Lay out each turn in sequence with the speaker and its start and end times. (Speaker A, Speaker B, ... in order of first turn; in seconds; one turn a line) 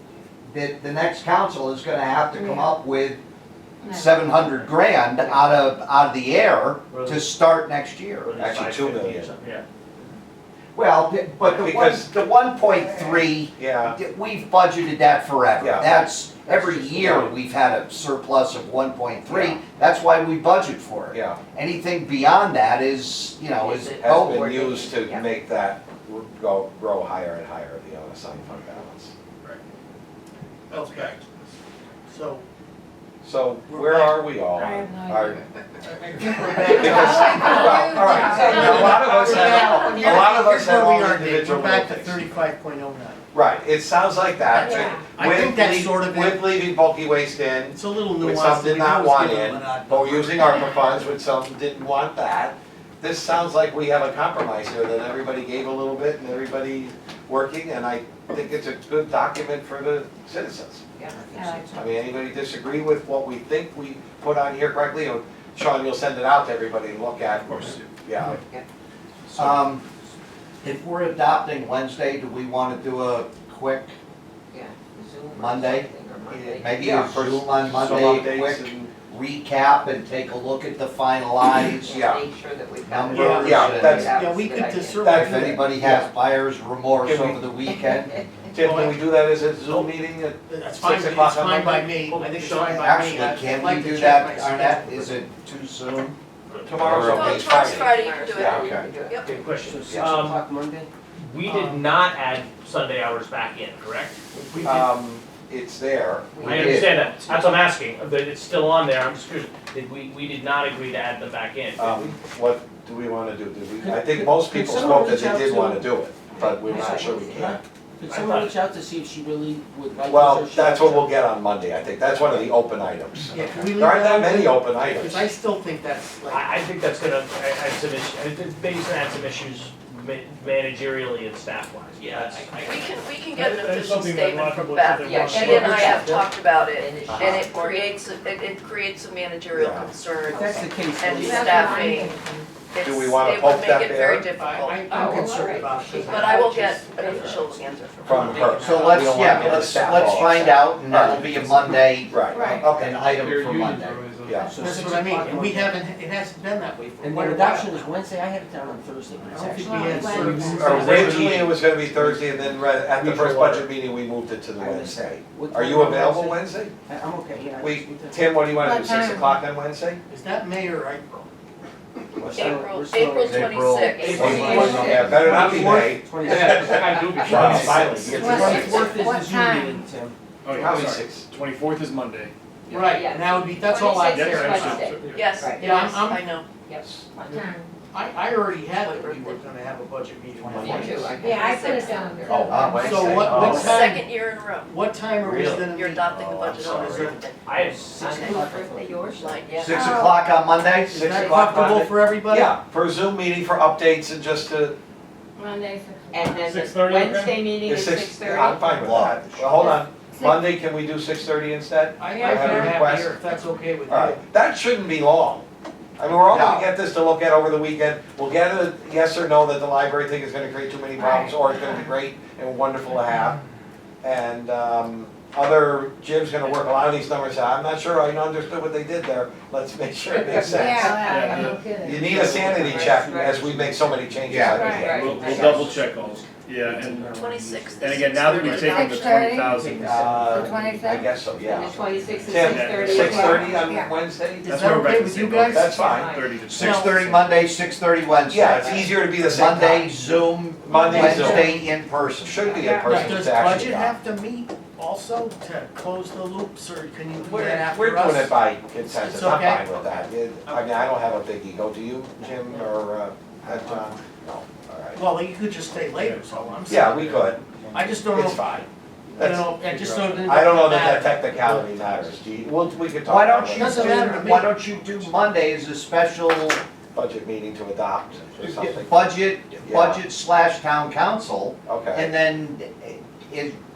Speaker A: 0.5-3.2
Speaker B: 2.3-2.7
Speaker B: 3.8-4.2
Speaker A: 3.8-8.3
Speaker C: 6.9-7.3
Speaker C: 8.2-9.6
Speaker D: 8.3-9.3
Speaker A: 10.7-24.5
Speaker D: 11.4-12.1
Speaker D: 13.5-14.0
Speaker D: 15.6-16.1
Speaker C: 16.5-17.3
Speaker D: 19.3-19.6
Speaker D: 21.1-21.4
Speaker E: 23.6-25.3
Speaker D: 24.0-29.1
Speaker F: 30.7-31.2
Speaker D: 30.9-31.1
Speaker F: 32.1-32.4
Speaker D: 33.2-35.4
Speaker F: 33.7-34.2
Speaker B: 34.5-35.4
Speaker F: 35.8-43.2
Speaker D: 36.5-42.2
Speaker B: 36.6-40.0
Speaker D: 43.3-60.8
Speaker B: 44.5-45.1
Speaker F: 44.6-46.5
Speaker F: 47.7-50.4
Speaker E: 61.0-61.9
Speaker G: 61.2-61.6
Speaker B: 61.3-61.7
Speaker D: 61.7-68.4
Speaker E: 68.4-68.7
Speaker G: 69.3-69.8
Speaker A: 69.3-69.8
Speaker A: 70.6-73.9
Speaker E: 74.5-77.0
Speaker A: 75.3-81.9
Speaker D: 76.7-78.9
Speaker G: 77.9-78.2
Speaker E: 81.8-85.0
Speaker D: 81.8-82.2
Speaker A: 82.8-84.0
Speaker F: 83.1-85.7
Speaker D: 83.4-84.1
Speaker D: 85.0-86.1
Speaker A: 85.1-88.2
Speaker D: 87.0-87.4
Speaker D: 88.5-91.9
Speaker F: 88.6-89.9
Speaker F: 90.5-95.2
Speaker C: 92.0-93.0
Speaker A: 92.7-96.1
Speaker C: 96.5-97.0
Speaker D: 96.6-98.6
Speaker A: 96.8-97.8
Speaker H: 97.0-99.3
Speaker E: 97.6-99.2
Speaker A: 98.4-98.9
Speaker C: 99.2-100.4
Speaker G: 99.6-100.9
Speaker C: 101.2-104.2
Speaker F: 101.4-101.9
Speaker D: 104.6-106.8
Speaker E: 106.3-106.7
Speaker C: 106.4-112.2
Speaker A: 106.4-106.9
Speaker D: 111.8-117.6
Speaker G: 113.8-121.2
Speaker C: 118.1-118.6
Speaker D: 120.0-125.3
Speaker F: 123.3-126.5
Speaker C: 126.3-132.7
Speaker H: 132.6-142.1
Speaker I: 133.4-136.2
Speaker E: 135.0-136.1
Speaker E: 136.7-137.6
Speaker D: 137.1-137.4
Speaker D: 139.5-139.9
Speaker G: 140.2-141.9
Speaker B: 141.3-142.5
Speaker H: 142.7-145.0
Speaker D: 142.8-144.3
Speaker F: 144.4-150.0
Speaker E: 144.9-147.3
Speaker H: 146.0-148.2
Speaker D: 148.0-153.1
Speaker A: 148.6-154.0
Speaker B: 152.3-152.7
Speaker I: 153.1-154.4
Speaker D: 154.2-154.5
Speaker G: 154.4-155.8
Speaker F: 154.6-157.8
Speaker G: 157.0-159.9
Speaker F: 159.3-161.5
Speaker B: 159.5-161.0
Speaker D: 160.5-166.7
Speaker G: 160.6-162.6
Speaker I: 163.0-163.7
Speaker G: 164.6-168.4
Speaker D: 167.6-170.0
Speaker B: 168.6-169.4
Speaker F: 170.1-171.3
Speaker D: 172.2-172.6
Speaker G: 172.2-173.7
Speaker H: 172.2-174.7
Speaker A: 173.2-175.4
Speaker E: 173.9-174.7
Speaker D: 174.2-179.0
Speaker F: 174.2-175.8
Speaker G: 174.3-177.1
Speaker I: 176.2-178.2
Speaker C: 177.2-178.8
Speaker G: 178.1-180.1
Speaker B: 178.1-179.8
Speaker I: 180.4-182.3
Speaker D: 180.6-181.3
Speaker F: 182.7-185.1
Speaker E: 182.7-185.7
Speaker I: 184.1-185.3
Speaker H: 185.1-186.5
Speaker F: 185.6-186.3
Speaker E: 186.7-187.4
Speaker B: 187.3-187.7
Speaker F: 187.9-191.1
Speaker H: 188.5-189.5
Speaker D: 190.4-191.1
Speaker E: 190.8-193.0
Speaker B: 191.2-192.8
Speaker H: 191.4-191.9
Speaker D: 192.2-193.8
Speaker A: 192.5-193.7
Speaker F: 192.8-194.1
Speaker H: 193.5-194.7
Speaker F: 194.6-196.1
Speaker D: 195.2-197.2
Speaker H: 195.6-197.4
Speaker F: 196.6-198.5
Speaker C: 197.4-198.0
Speaker G: 197.8-199.4
Speaker E: 198.0-199.7
Speaker H: 199.1-199.6
Speaker A: 199.6-201.0
Speaker B: 199.7-200.2
Speaker F: 200.8-202.6
Speaker D: 200.9-204.8
Speaker B: 205.4-206.6
Speaker E: 206.1-208.7
Speaker I: 206.5-207.4
Speaker D: 207.6-213.2
Speaker A: 208.7-209.7
Speaker B: 210.1-210.4
Speaker F: 212.0-214.2
Speaker B: 212.1-212.7
Speaker D: 213.9-215.4
Speaker D: 216.0-223.4
Speaker A: 216.2-216.7
Speaker B: 221.0-221.9
Speaker D: 224.0-231.2
Speaker E: 230.1-230.7
Speaker B: 230.5-232.1
Speaker I: 231.1-231.6
Speaker E: 231.2-231.6
Speaker D: 231.8-235.6
Speaker A: 231.9-232.4
Speaker G: 232.0-238.2
Speaker E: 232.4-233.8
Speaker A: 234.3-234.7
Speaker B: 234.5-235.0
Speaker E: 234.8-235.8
Speaker I: 235.0-237.1
Speaker H: 237.1-239.0
Speaker I: 237.8-240.1
Speaker B: 238.3-239.6
Speaker G: 239.4-241.9
Speaker D: 239.8-244.5
Speaker B: 240.3-241.1
Speaker E: 241.4-243.4
Speaker I: 242.3-243.6
Speaker B: 243.0-243.9
Speaker F: 244.4-245.9
Speaker I: 244.4-247.3
Speaker D: 245.5-246.2
Speaker E: 245.8-246.5
Speaker A: 246.5-252.4
Speaker F: 246.6-246.9
Speaker D: 248.3-249.9
Speaker D: 250.6-251.6
Speaker B: 250.7-251.6
Speaker D: 252.2-253.9
Speaker E: 252.4-252.7
Speaker B: 252.6-253.0
Speaker F: 252.8-259.6
Speaker D: 257.2-265.0
Speaker F: 263.5-263.9
Speaker F: 264.9-267.2
Speaker I: 266.0-267.9
Speaker D: 266.7-267.4
Speaker F: 267.7-272.2
Speaker D: 268.1-268.6
Speaker D: 269.2-274.2
Speaker A: 273.0-276.6
Speaker F: 273.5-275.0
Speaker D: 276.9-279.1
Speaker A: 278.4-283.6
Speaker D: 279.6-280.0
Speaker D: 281.7-282.1